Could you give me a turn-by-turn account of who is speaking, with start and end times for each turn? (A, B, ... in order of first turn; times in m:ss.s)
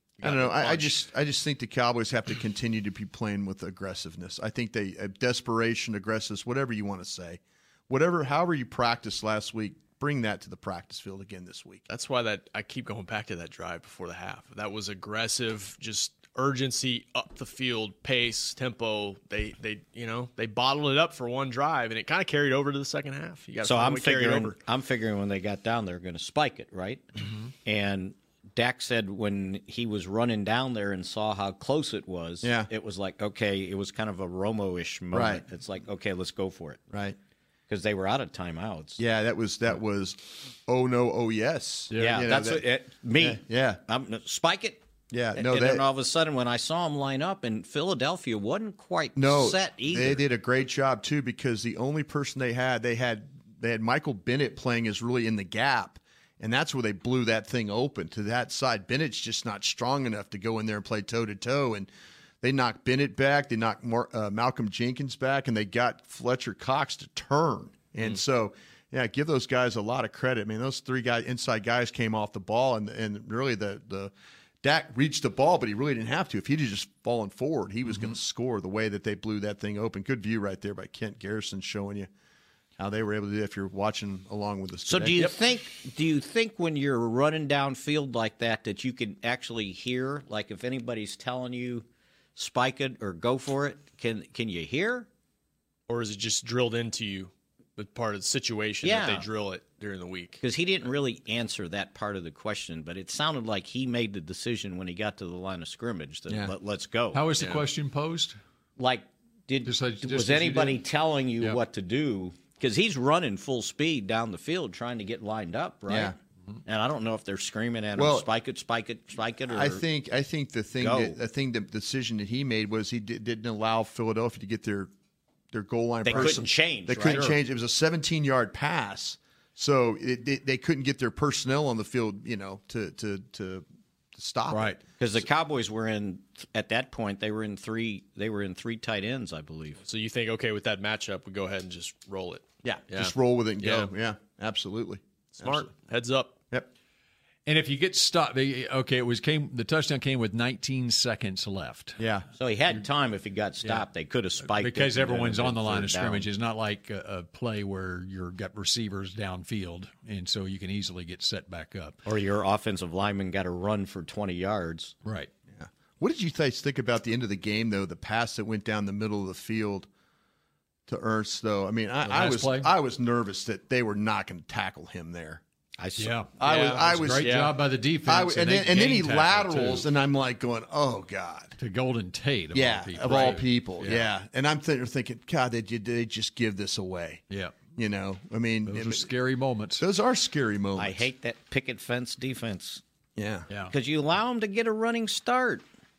0:00.2-0:01.1 A
0:00.2-0:11.8 B
0:11.9-0:24.6 A
0:23.6-0:27.1 C
0:27.6-0:36.8 C
0:32.4-0:32.7 B
0:35.1-0:35.4 B
0:36.9-0:37.2 B
0:37.7-0:39.0 C
0:39.0-0:42.7 B
0:42.0-0:50.2 C
0:43.2-0:43.8 B
0:45.1-0:45.9 B
0:49.2-1:01.9 B
1:02.4-1:14.1 B
1:14.6-1:22.1 B
1:22.8-1:25.2 B
1:24.9-1:35.1 C
1:35.9-1:40.4 A
1:38.8-1:39.3 C
1:40.4-1:47.2 C
1:47.1-1:48.4 D
1:47.4-1:47.6 A
1:48.8-1:56.2 C
1:49.6-1:50.8 D
1:55.9-1:56.2 B
1:56.7-1:59.8 C
1:58.0-1:58.3 B
1:59.5-2:04.9 B
2:00.8-2:01.2 C
2:05.5-2:14.8 B
2:06.0-2:07.4 C
2:15.0-2:19.8 C
2:19.8-2:23.9 A
2:22.6-2:25.7 B
2:25.4-2:26.4 A
2:27.5-2:32.0 D
2:32.0-2:32.3 B
2:32.4-2:36.3 C
2:34.5-2:42.0 D
2:42.1-2:45.0 C
2:45.0-2:45.3 D
2:45.5-2:49.9 B
2:50.9-2:55.4 B
2:52.0-2:52.7 D
2:55.8-2:56.2 C
2:56.0-2:59.9 D
2:56.4-2:57.5 B
2:56.4-2:57.5 A
2:58.1-3:01.6 B
3:01.6-3:04.1 D
3:02.5-3:07.2 B
3:07.3-3:07.6 D
3:07.8-3:09.1 B
3:08.7-3:09.8 D
3:09.8-3:11.1 B
3:10.8-3:12.8 C
3:13.2-3:13.5 B
3:13.7-3:15.6 C